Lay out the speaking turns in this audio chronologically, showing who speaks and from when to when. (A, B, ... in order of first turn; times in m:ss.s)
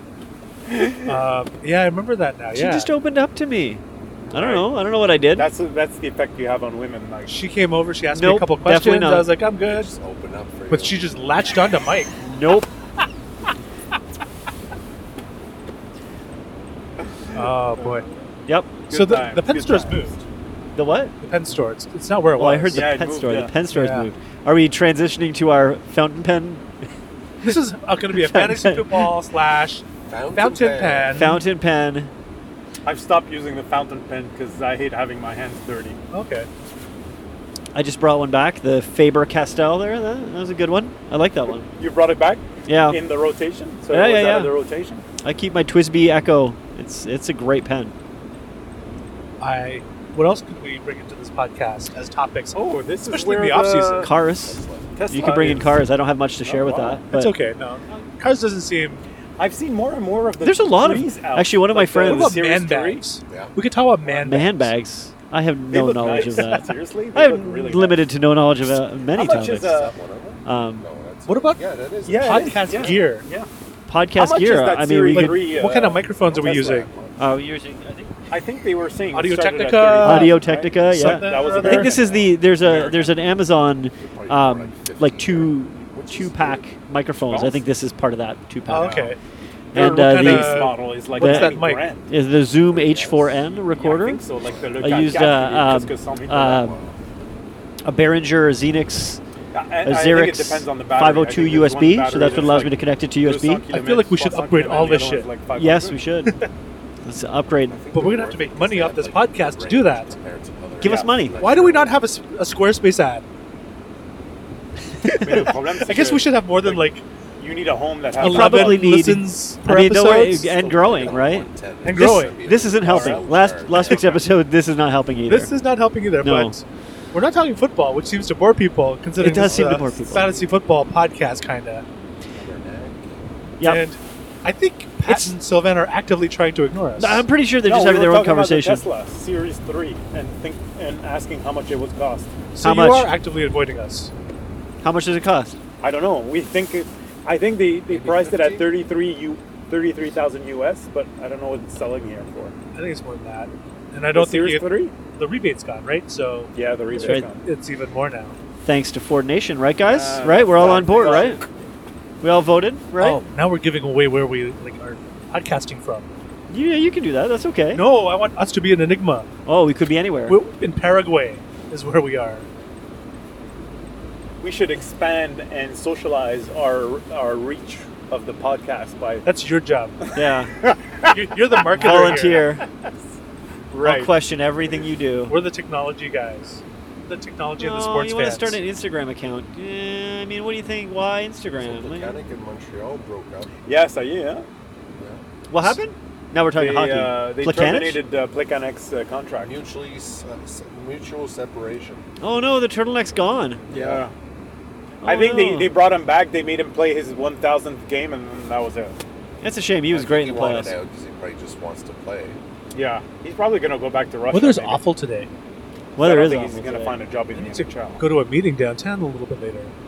0:00.6-0:01.2 A
0:01.1-0:02.9 B
0:02.6-0:03.8 C
0:04.3-0:04.7 A
0:04.3-0:05.5 C
0:05.4-0:07.4 A
0:07.3-0:09.9 B
0:08.1-0:09.3 C
0:09.6-0:11.1 D
0:10.7-0:12.2 B
0:12.2-0:12.7 C
0:17.3-0:18.1 B
0:18.5-0:18.8 C
0:18.9-0:20.2 A
0:18.9-0:20.2 B
0:20.8-0:21.1 C
0:21.2-0:22.9 B
0:22.4-0:26.6 C
0:22.7-0:23.6 A
0:23.6-0:24.1 B
0:27.4-0:31.4 B
0:28.1-0:29.1 C
0:30.1-0:31.2 D
0:31.1-0:32.1 C
0:32.8-0:36.0 A
0:36.1-0:36.5 B
0:37.7-0:41.7 C
0:41.8-0:45.0 A
0:42.6-0:43.0 C
0:43.9-0:44.5 C
0:45.2-0:47.9 C
0:49.4-0:54.1 B
0:52.5-0:54.1 A
0:54.0-0:57.4 C
0:54.2-0:55.5 D
0:55.0-0:55.8 A
0:56.4-0:57.0 A
0:57.1-0:59.0 B
0:59.4-1:03.0 A
1:00.4-1:02.4 C
1:02.0-1:04.7 B
1:03.3-1:03.6 D
1:04.2-1:09.7 C
1:05.7-1:08.1 A
1:06.2-1:06.6 B
1:09.1-1:10.0 A
1:09.5-1:13.0 D
1:10.4-1:10.9 C
1:11.3-1:11.6 B
1:12.1-1:13.5 A
1:12.2-1:13.3 B
1:13.9-1:15.5 C
1:14.1-1:16.8 A
1:15.1-1:16.9 B
1:16.2-1:17.3 D
1:17.2-1:18.1 C
1:18.3-1:22.0 A
1:19.1-1:22.0 B
1:20.0-1:28.9 C
1:21.8-1:23.2 D
1:24.0-1:26.7 D
1:27.3-1:27.6 A
1:28.7-1:29.2 B
1:28.7-1:29.1 A
1:29.7-1:34.2 C
1:29.7-1:31.9 B
1:29.8-1:32.1 A
1:32.1-1:33.6 D
1:33.8-1:36.7 A
1:34.4-1:34.7 D
1:34.8-1:36.8 C
1:36.5-1:37.0 D
1:37.8-1:39.2 C
1:39.5-1:46.0 A
1:39.8-1:43.7 C
1:43.7-1:45.3 B
1:45.5-1:46.4 C
1:47.0-1:47.8 C
1:47.7-1:52.0 D
1:47.9-1:50.2 B
1:50.8-1:51.5 C
1:50.8-1:51.2 A
1:51.4-1:53.2 B
1:55.0-1:57.0 B
1:55.0-1:56.9 A
1:57.4-1:58.8 A
1:58.2-2:00.5 B
1:58.2-2:01.5 C
2:00.4-2:04.2 D
2:01.8-2:03.2 B
2:02.2-2:05.5 C
2:05.3-2:11.8 B
2:06.2-2:06.6 C
2:09.2-2:10.3 C
2:12.3-2:13.4 D
2:13.6-2:13.8 C
2:13.6-2:17.2 B
2:15.1-2:15.3 C
2:17.0-2:18.9 C
2:17.6-2:22.4 A
2:22.6-2:24.1 B
2:22.6-2:23.1 C
2:24.8-2:25.6 C
2:25.8-2:32.6 A
2:27.9-2:28.7 D
2:32.7-2:38.4 B
2:34.1-2:35.0 A
2:36.5-2:37.4 A
2:37.0-2:37.3 C
2:38.6-2:41.4 C
2:39.8-2:41.5 A
2:42.2-2:43.2 C
2:43.0-2:46.1 B
2:46.5-2:47.8 C
2:47.7-2:49.3 B
2:49.4-2:50.4 C
2:50.3-2:52.5 B
2:54.4-2:59.3 A
2:59.2-3:00.1 B
3:00.1-3:00.6 C
3:00.6-3:03.0 A
3:01.1-3:02.5 B
3:01.8-3:02.6 C
3:03.7-3:04.1 A
3:03.8-3:05.4 C
3:05.3-3:08.6 B
3:07.6-3:12.2 C
3:11.5-3:13.6 D
3:13.6-3:14.5 A
3:15.0-3:15.2 D
3:15.5-3:18.0 C
3:16.6-3:19.5 A
3:19.4-3:22.1 D
3:22.2-3:23.6 C
3:23.7-3:24.1 D
3:23.7-3:24.1 A
3:25.0-3:25.7 C
3:25.0-3:29.0 A
3:29.4-3:30.8 C
3:29.9-3:32.4 D
3:32.7-3:34.8 A
3:34.3-3:35.3 B
3:36.0-3:37.0 C
3:36.0-3:38.0 A
3:37.4-3:39.7 B